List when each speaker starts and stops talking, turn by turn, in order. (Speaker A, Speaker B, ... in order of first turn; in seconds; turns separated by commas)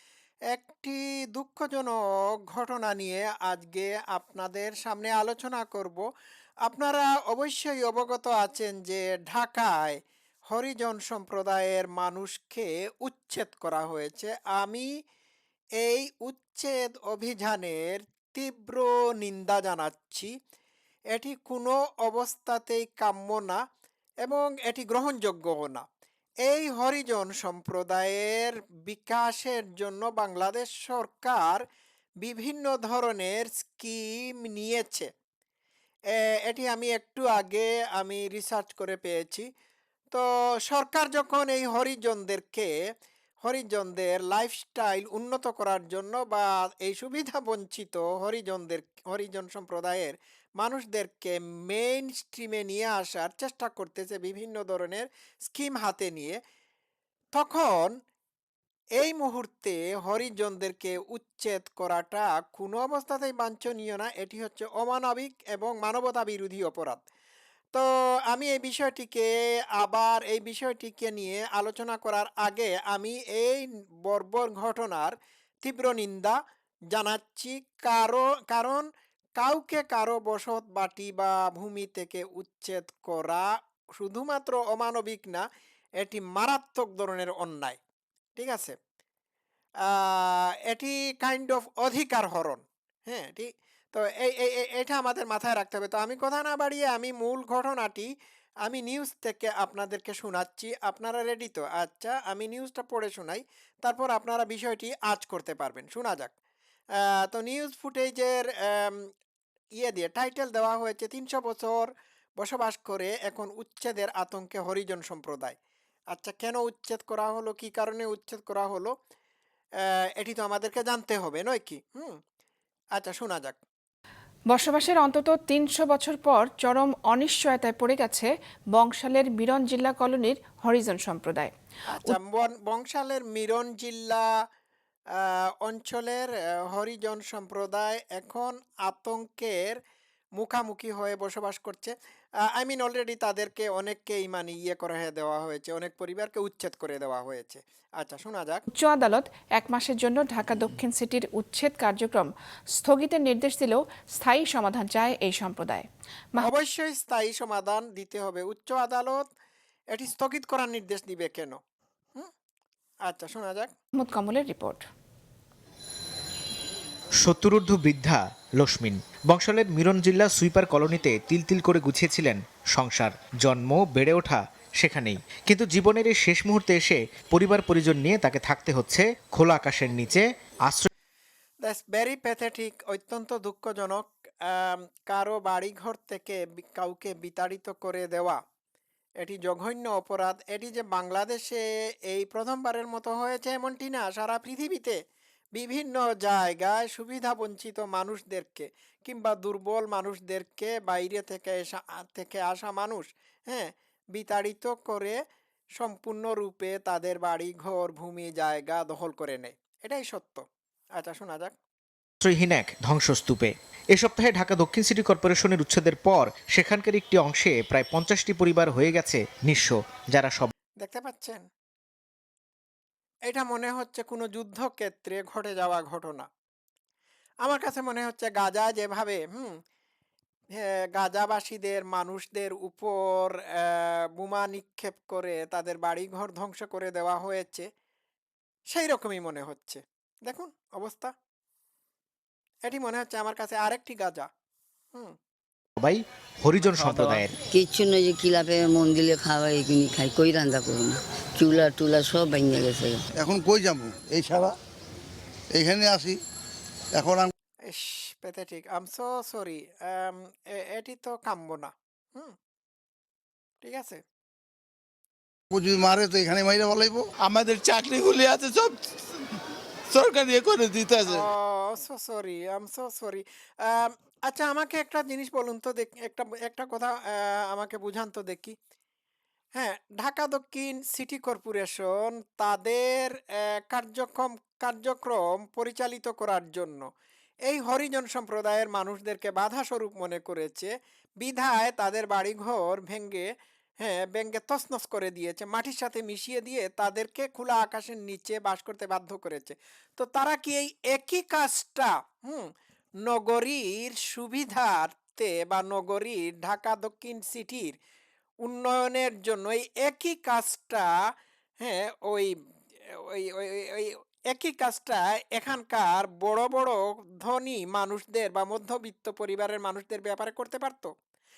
Speaker A: 0.5-6.0, Speaker A: 6.7-14.9, Speaker A: 15.8-20.3, Speaker A: 21.1-23.6, Speaker A: 24.2-25.9, Speaker A: 26.4-31.6, Speaker A: 32.2-35.1, Speaker A: 36.1-39.5, Speaker A: 40.1-42.7, Speaker A: 43.4-56.4, Speaker A: 57.4-58.0, Speaker A: 59.0-67.0, Speaker A: 67.7-76.4, Speaker A: 76.9-85.5, Speaker A: 86.0-87.8, Speaker A: 88.4-88.8, Speaker A: 89.8-98.1, Speaker A: 98.6-106.3, Speaker A: 107.0-109.1, Speaker A: 109.8-115.6, Speaker A: 116.1-119.0, Speaker A: 119.8-122.2, Speaker A: 123.0-123.6, Speaker B: 124.5-131.5, Speaker A: 131.9-134.4, Speaker A: 135.1-139.8, Speaker A: 140.4-148.6, Speaker B: 148.7-156.5, Speaker A: 156.4-159.3, Speaker A: 159.9-161.6, Speaker A: 163.1-163.7, Speaker B: 164.0-164.8, Speaker C: 167.2-180.9, Speaker A: 181.6-188.4, Speaker A: 189.2-195.0, Speaker A: 195.6-205.2, Speaker A: 205.8-211.6, Speaker C: 212.2-220.5, Speaker A: 220.8-221.5, Speaker A: 223.3-226.3, Speaker A: 227.4-229.6, Speaker A: 230.6-237.7, Speaker A: 238.7-241.1, Speaker A: 242.7-244.3, Speaker C: 245.8-247.3, Speaker D: 247.5-253.0, Speaker E: 253.2-254.5, Speaker E: 255.5-256.2, Speaker E: 256.9-257.3, Speaker A: 257.7-262.4, Speaker A: 263.6-264.0, Speaker E: 265.5-267.1, Speaker F: 267.2-269.2, Speaker F: 269.9-271.2, Speaker A: 271.1-278.6, Speaker A: 279.6-286.9, Speaker A: 287.5-293.3, Speaker A: 293.8-302.5, Speaker A: 303.0-307.8, Speaker A: 308.4-310.9, Speaker A: 311.6-312.3, Speaker A: 312.9-320.9